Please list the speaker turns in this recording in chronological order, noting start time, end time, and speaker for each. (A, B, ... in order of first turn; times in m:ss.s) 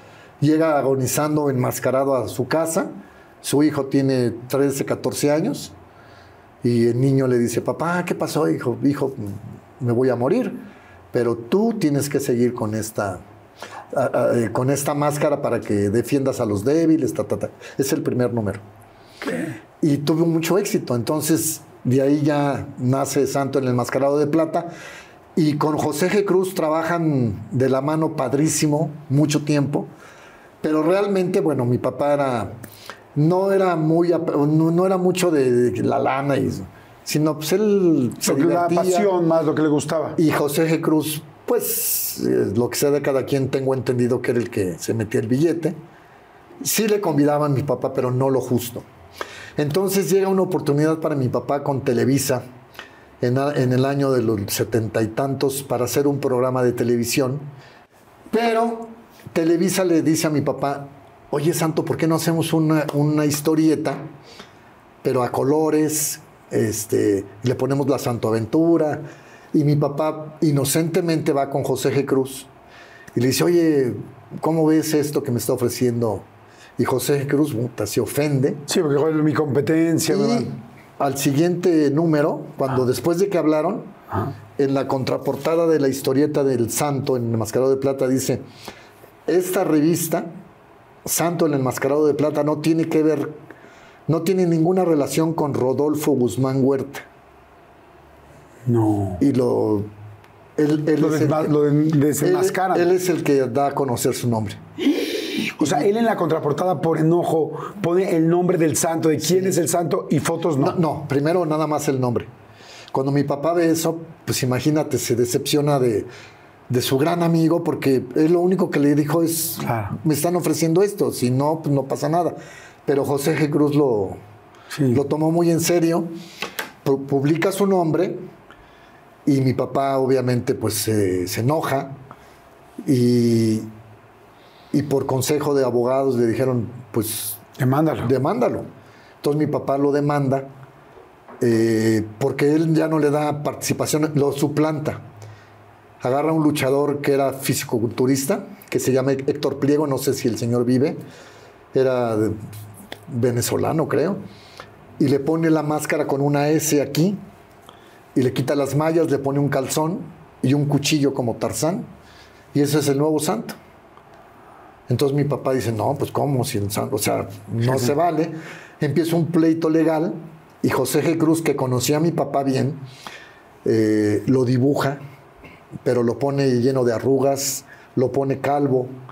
0:00.4-0:02.9 A
0:03.4-0:05.7 A
0:06.6-0:10.6 A
0:11.1-0:13.2 A
0:13.9-0:18.6 A
0:19.2-0:19.6 B
0:19.8-0:24.7 A
0:25.4-0:29.9 A
0:30.6-0:32.5 A
0:33.2-0:39.2 A
0:38.2-0:40.2 B
0:40.2-0:45.8 A
0:46.6-0:48.9 A
0:49.6-0:52.4 A
0:53.2-0:57.5 A
0:58.3-1:04.0 A
1:05.0-1:12.5 A
1:13.2-1:16.3 A
1:16.8-1:18.6 A
1:18.7-1:20.5 B
1:20.1-1:23.9 A
1:24.6-1:28.4 A
1:29.3-1:30.3 A
1:31.1-1:33.4 A
1:34.1-1:37.0 A
1:38.7-1:39.2 B
1:39.2-1:39.9 A
1:40.6-1:41.5 A
1:41.0-1:42.9 B
1:42.2-1:44.6 A
1:45.1-1:50.8 B
1:45.6-1:45.9 A
1:49.2-1:49.6 A
1:50.6-1:52.3 A
1:52.9-1:56.1 A
1:56.7-2:04.2 A
1:59.6-2:00.0 B
2:04.7-2:05.0 B
2:04.9-2:06.1 A
2:06.8-2:08.2 A
2:09.3-2:11.9 A
2:12.8-2:13.7 A
2:14.7-2:17.4 A
2:17.6-2:18.1 B
2:18.0-2:18.7 A
2:19.2-2:20.5 A
2:21.4-2:25.0 A
2:26.0-2:31.0 A
2:31.7-2:32.4 A
2:33.1-2:34.2 A
2:35.0-2:37.2 A
2:38.1-2:41.9 A
2:42.5-2:43.6 A
2:44.9-2:52.8 A
2:53.6-2:55.0 A
2:55.8-2:58.9 A